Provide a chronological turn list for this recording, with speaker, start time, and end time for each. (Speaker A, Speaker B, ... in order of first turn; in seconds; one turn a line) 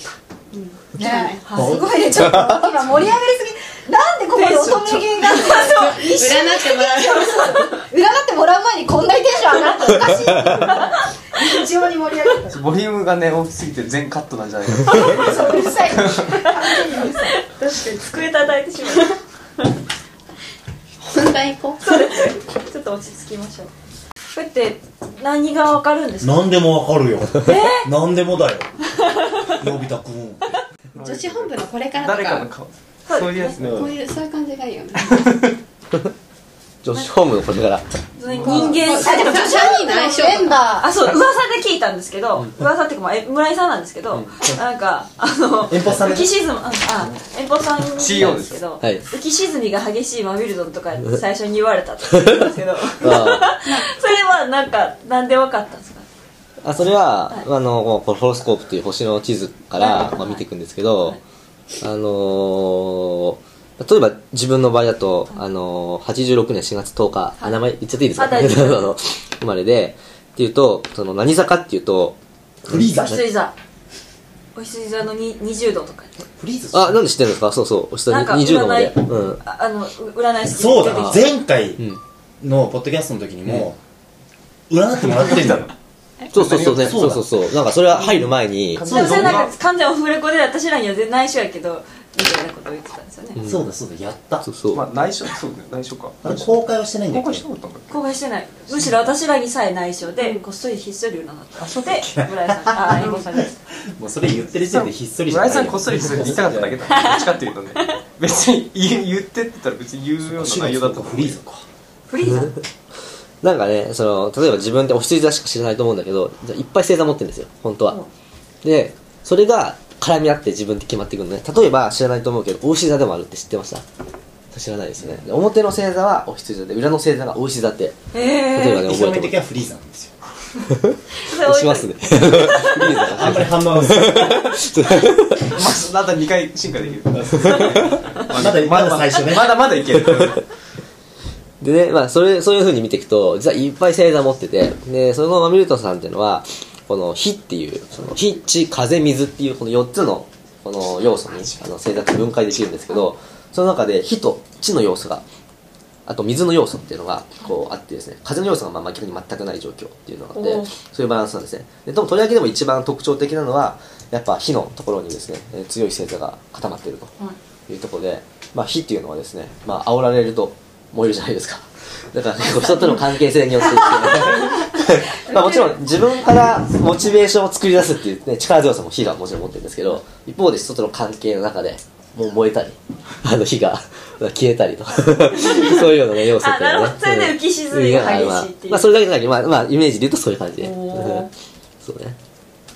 Speaker A: 0.5-1.4
Speaker B: 0.9-12.6
Speaker C: 1.6-2.5
Speaker D: 4.3-6.2
Speaker A: 6.1-7.3
Speaker E: 12.5-16.4
Speaker B: 14.9-17.4
Speaker D: 14.9-19.7
Speaker A: 21.0-22.1
Speaker D: 21.8-23.7
Speaker D: 24.3-26.5
Speaker C: 26.2-28.7
Speaker D: 27.4-27.9
Speaker D: 29.0-29.6
Speaker C: 29.5-30.6
Speaker E: 30.9-34.0
Speaker A: 31.0-32.5
Speaker D: 33.1-33.6
Speaker A: 33.6-35.2
Speaker E: 35.0-35.5
Speaker F: 36.8-37.9
Speaker D: 38.2-39.9
Speaker E: 38.3-38.7
Speaker A: 38.5-40.8
Speaker B: 38.5-40.9
Speaker D: 40.8-56.1
Speaker C: 45.7-46.3
Speaker E: 48.0-48.6
Speaker F: 48.2-49.0
Speaker F: 52.1-52.5
Speaker F: 53.0-53.5
Speaker F: 56.6-61.2
Speaker D: 59.8-60.5
Speaker F: 61.8-72.2
Speaker D: 68.2-68.9
Speaker C: 72.7-73.3
Speaker D: 72.9-73.5
Speaker D: 74.5-76.2
Speaker C: 76.3-77.0
Speaker F: 76.7-79.4
Speaker D: 78.1-81.3
Speaker C: 80.5-81.8
Speaker F: 80.9-81.2
Speaker C: 82.4-83.8
Speaker C: 84.7-85.7
Speaker E: 85.1-85.7
Speaker E: 86.3-87.1
Speaker F: 86.3-89.1
Speaker C: 86.4-87.2
Speaker E: 88.8-89.5
Speaker C: 88.8-89.5
Speaker D: 88.8-93.4
Speaker C: 93.4-94.5
Speaker F: 94.4-94.8
Speaker E: 94.7-98.0
Speaker C: 96.2-97.4
Speaker D: 97.9-103.5
Speaker E: 101.6-102.3
Speaker C: 102.7-102.9
Speaker C: 104.0-106.7
Speaker E: 104.6-111.4
Speaker D: 106.8-108.0
Speaker C: 110.3-111.7
Speaker D: 112.1-112.6
Speaker F: 112.2-112.6
Speaker F: 113.4-118.0
Speaker F: 118.6-123.8
Speaker F: 124.5-128.0
Speaker D: 128.1-128.9
Speaker F: 128.5-129.4
Speaker C: 128.8-130.2
Speaker F: 130.7-135.6
Speaker D: 131.1-133.1
Speaker C: 132.6-134.6
Speaker E: 135.5-140.4
Speaker F: 137.4-137.8
Speaker C: 138.3-139.8
Speaker F: 141.6-155.2
Speaker F: 156.1-167.1
Speaker D: 160.3-160.7
Speaker F: 167.7-191.3
Speaker D: 174.0-175.8
Speaker D: 185.0-188.9
Speaker D: 190.6-191.3
Speaker F: 191.8-192.2